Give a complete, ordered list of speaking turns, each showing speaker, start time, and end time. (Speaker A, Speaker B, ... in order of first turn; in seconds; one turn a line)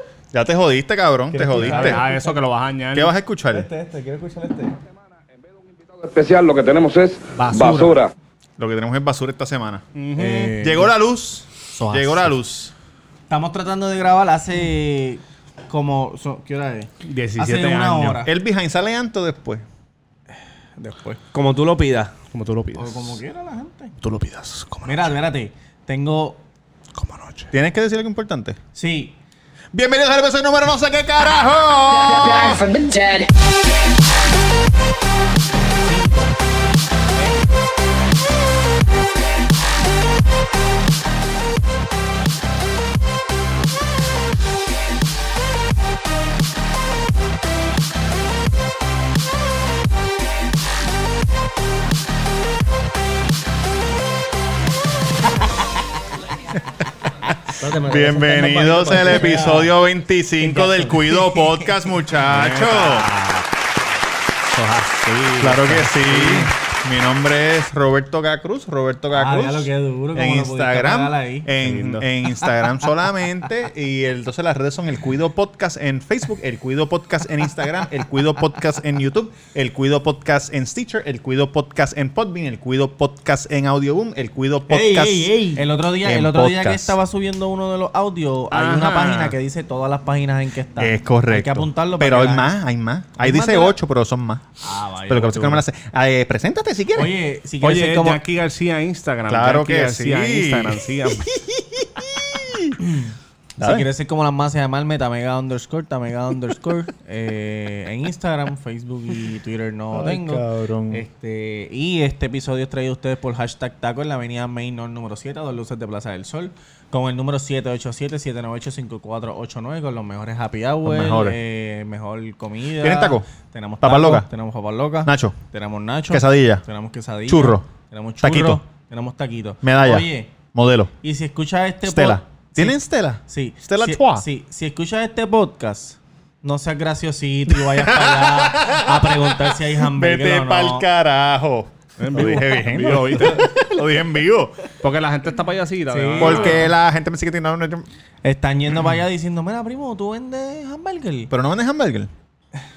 Speaker A: 0.3-2.0
Speaker B: 1.3-2.4
Speaker C: 1.6-3.1
Speaker A: 2.9-3.7
Speaker B: 3.5-4.8
Speaker D: 5.4-8.1
Speaker C: 7.3-8.0
Speaker A: 8.6-9.8
Speaker C: 9.9-10.6
Speaker B: 10.2-10.7
Speaker E: 10.4-10.7
Speaker A: 10.6-12.7
Speaker C: 11.8-12.3
Speaker E: 13.3-18.3
Speaker C: 17.0-18.2
Speaker A: 18.2-19.6
Speaker E: 20.8-21.2
Speaker B: 21.2-22.1
Speaker C: 22.3-23.2
Speaker E: 22.8-23.9
Speaker C: 24.0-25.1
Speaker E: 24.9-26.4
Speaker C: 26.9-27.5
Speaker A: 27.5-28.6
Speaker E: 28.8-29.2
Speaker A: 29.7-33.0
Speaker E: 35.5-36.4
Speaker A: 57.2-63.1
Speaker B: 57.6-59.7
Speaker E: 59.2-59.5
Speaker E: 60.4-61.5
Speaker C: 62.2-63.5
Speaker C: 64.5-66.4
Speaker A: 65.4-85.5
Speaker E: 69.1-71.5
Speaker C: 71.6-72.1
Speaker B: 84.7-85.7
Speaker E: 85.4-92.5
Speaker A: 86.0-87.0
Speaker C: 88.5-89.3
Speaker A: 90.8-94.4
Speaker E: 93.2-93.8
Speaker E: 94.6-95.6
Speaker A: 95.1-97.1
Speaker E: 96.9-98.2
Speaker C: 97.6-101.3
Speaker A: 99.3-102.8
Speaker E: 102.8-130.3
Speaker A: 103.6-103.9
Speaker A: 109.9-111.0
Speaker A: 120.8-121.4
Speaker A: 122.8-123.3
Speaker A: 123.8-124.3
Speaker A: 125.0-125.4
Speaker A: 126.1-126.7
Speaker A: 127.3-127.7
Speaker A: 128.2-128.6
Speaker A: 129.6-130.9
Speaker E: 131.0-140.8
Speaker A: 131.8-134.2
Speaker A: 137.6-144.6
Speaker C: 142.0-143.5
Speaker C: 144.8-146.7
Speaker B: 145.9-146.3
Speaker E: 146.0-146.7
Speaker A: 146.2-147.9
Speaker E: 148.2-151.3
Speaker A: 151.3-152.1